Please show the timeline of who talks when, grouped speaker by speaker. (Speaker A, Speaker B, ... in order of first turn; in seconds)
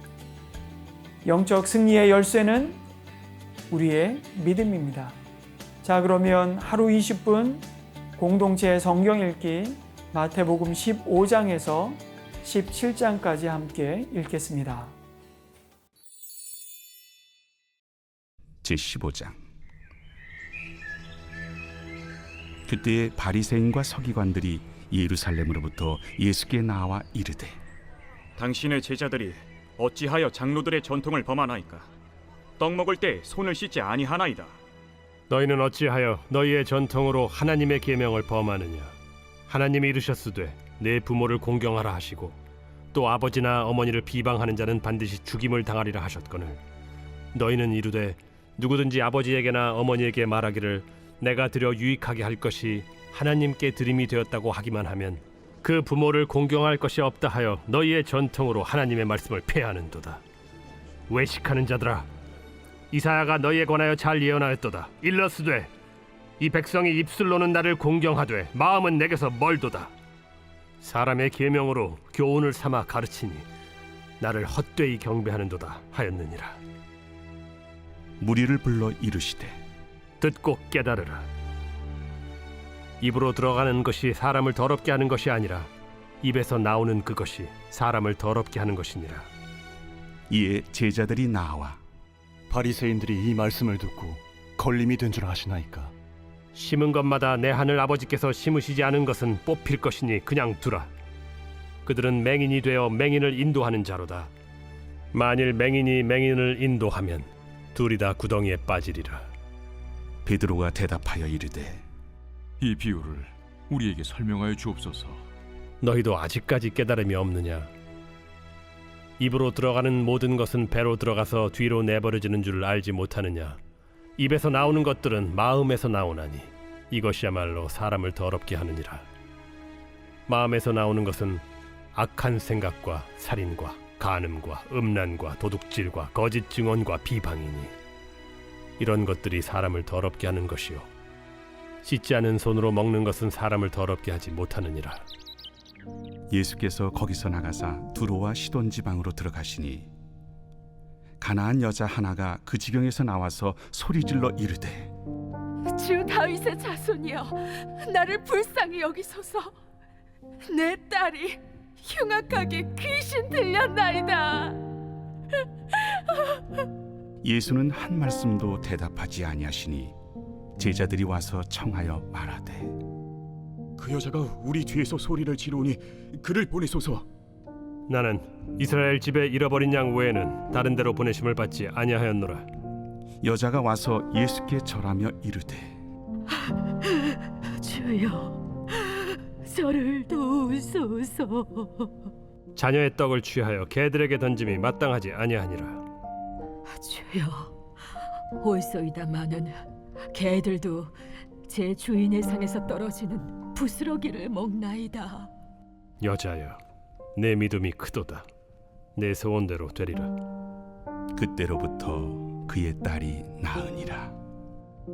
Speaker A: 1.2-2.8, 3.7-5.2, 5.8-7.7, 8.2-14.9
Speaker B: 18.6-19.4, 22.7-27.6, 78.2-79.6, 90.3-91.8, 110.2-111.8, 146.3-149.9, 151.2-154.9, 167.2-169.9, 170.6-172.8, 183.2-185.8, 211.1-214.1
Speaker C: 28.4-31.9, 32.6-34.5, 173.8-177.1
Speaker D: 35.3-38.9, 39.5-42.4, 42.9-46.6, 47.3-60.2, 61.1-62.1, 62.9-65.7, 66.4-69.9, 70.8-73.5, 74.2-76.6, 80.2-81.2, 83.0-85.7, 86.2-89.3, 96.5-100.9, 101.8-104.3, 105.1-109.2, 115.8-117.7, 119.2-123.6, 124.2-129.0, 130.3-131.4, 131.9-137.7, 138.8-140.9, 141.8-145.0, 177.9-182.4, 192.6-195.8, 206.0-206.6, 207.2-208.2, 208.9-210.1
Speaker E: 92.5-95.9
Speaker F: 112.6-115.2
Speaker G: 155.7-159.5, 160.4-164.6, 165.7-166.4, 187.6-191.9, 196.7-197.6, 198.4-200.9, 201.5-205.3